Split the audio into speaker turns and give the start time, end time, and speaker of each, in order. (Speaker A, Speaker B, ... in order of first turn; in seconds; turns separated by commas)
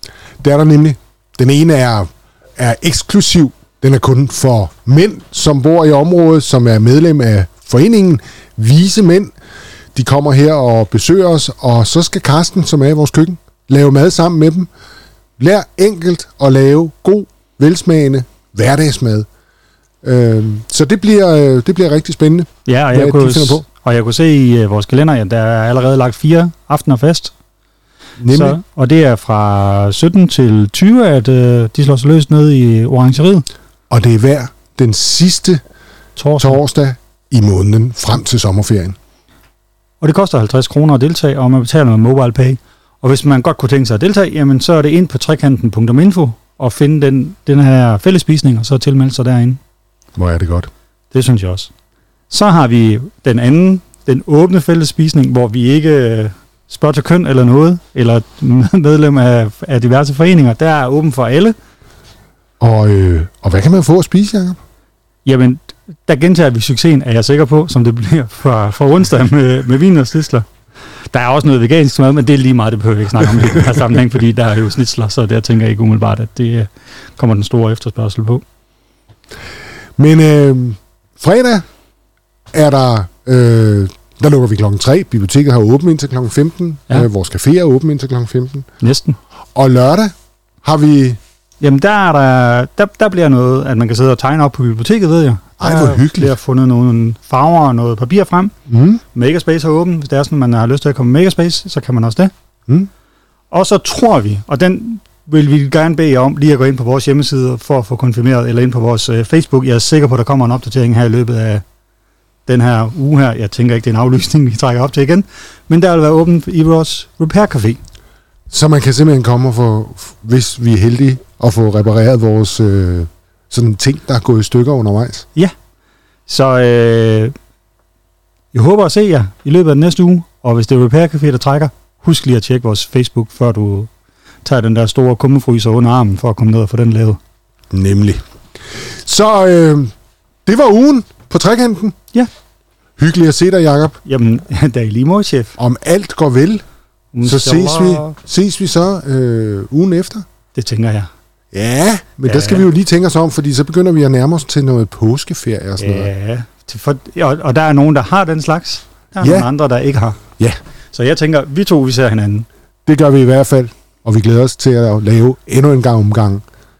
Speaker A: 0.4-9.3, Speaker A: 9.9-14.7, Speaker A: 15.4-19.3, Speaker A: 20.0-23.6, Speaker B: 22.7-27.3, Speaker A: 28.2-28.6, Speaker B: 28.3-33.5, Speaker A: 33.9-35.6, Speaker B: 36.2-36.6, Speaker A: 36.4-39.0, Speaker B: 40.0-49.6, Speaker A: 50.2-50.7, Speaker B: 51.1-51.7, Speaker B: 52.3-61.5, Speaker A: 62.6-64.6, Speaker B: 65.2-70.5, Speaker B: 71.1-78.4, Speaker A: 80.0-81.6, Speaker A: 82.5-88.7, Speaker B: 88.8-89.2, Speaker A: 89.5-91.2, Speaker B: 91.6-98.5, Speaker A: 95.6-96.3, Speaker A: 98.7-99.0, Speaker B: 99.1-102.3, Speaker B: 103.5-111.6, Speaker B: 112.5-117.8, Speaker A: 118.5-125.3, Speaker B: 126.3-127.3, Speaker B: 128.5-133.9, Speaker B: 134.4-137.2, Speaker A: 137.7-138.2, Speaker A: 138.9-139.9, Speaker A: 140.5-141.9, Speaker A: 143.0-144.0, Speaker B: 144.1-145.6, Speaker A: 145.6-146.6, Speaker B: 147.1-148.2, Speaker A: 147.2-150.2, Speaker B: 150.5-151.1, Speaker A: 151.5-156.1, Speaker B: 152.3-152.7, Speaker B: 155.8-160.2, Speaker A: 159.2-159.5, Speaker B: 160.9-162.5, Speaker A: 162.9-166.4